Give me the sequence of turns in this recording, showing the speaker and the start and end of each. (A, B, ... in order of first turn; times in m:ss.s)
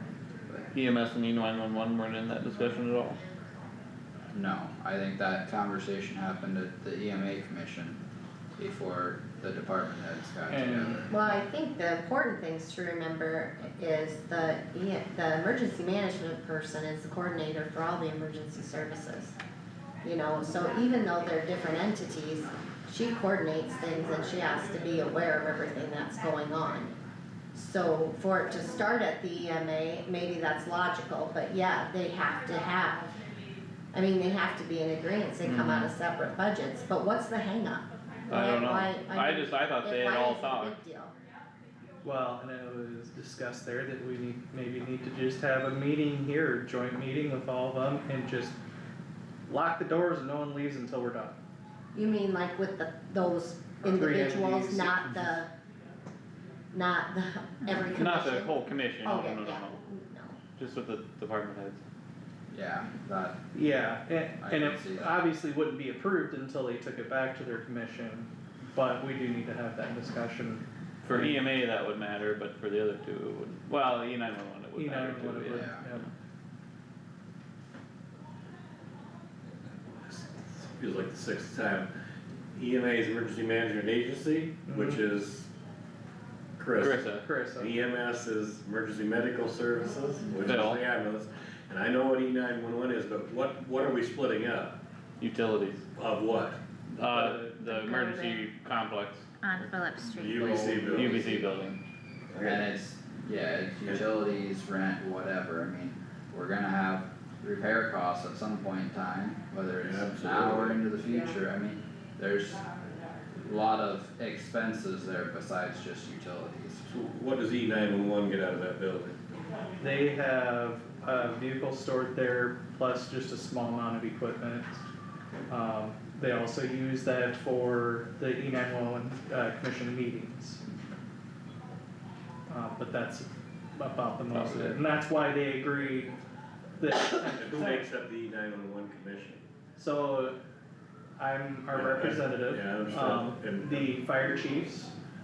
0:00.7-0:03.2 A
0:04.3-0:08.0 B
0:08.6-0:11.1 B
0:10.5-0:11.1 C
0:11.1-0:19.4 D
0:20.0-0:26.9 D
0:27.5-0:33.1 D
0:33.9-0:41.1 D
0:35.4-0:35.9 A
0:38.3-0:40.8 A
0:42.0-0:48.6 C
0:49.5-0:51.4 C
0:51.9-0:55.5 D
0:53.8-0:55.4 C
0:56.7-1:00.4 D
0:58.0-0:59.8 A
1:00.6-1:01.8 A
1:02.5-1:03.4 B
1:03.5-1:11.4 C
1:04.4-1:05.2 B
1:11.0-1:15.7 A
1:14.8-1:16.1 C
1:15.5-1:15.8 B
1:20.0-1:21.9 E
1:22.5-1:25.5 E
1:24.7-1:25.0 C
1:26.6-1:34.8 E
1:26.8-1:27.2 A
1:27.2-1:27.7 C
1:30.4-1:30.8 A
1:35.2-1:35.8 A
1:36.0-1:36.6 E
1:36.9-1:39.3 A
1:37.0-1:37.6 C
1:37.6-1:38.5 F
1:39.4-1:41.0 F
1:40.1-1:41.3 E
1:40.3-1:41.8 B
1:40.9-1:41.8 A
1:42.3-1:42.6 E
1:42.4-1:52.6 B
1:49.8-1:50.8 E
1:53.3-1:56.8 B
1:56.9-1:59.2 E
1:59.8-2:04.8 C
2:05.5-2:10.6 C
2:12.5-2:16.2 C
2:14.3-2:14.8 A
2:16.8-2:17.8 C
2:17.4-2:19.4 E
2:19.8-2:20.4 C
2:21.2-2:24.9 C
2:21.7-2:24.0 E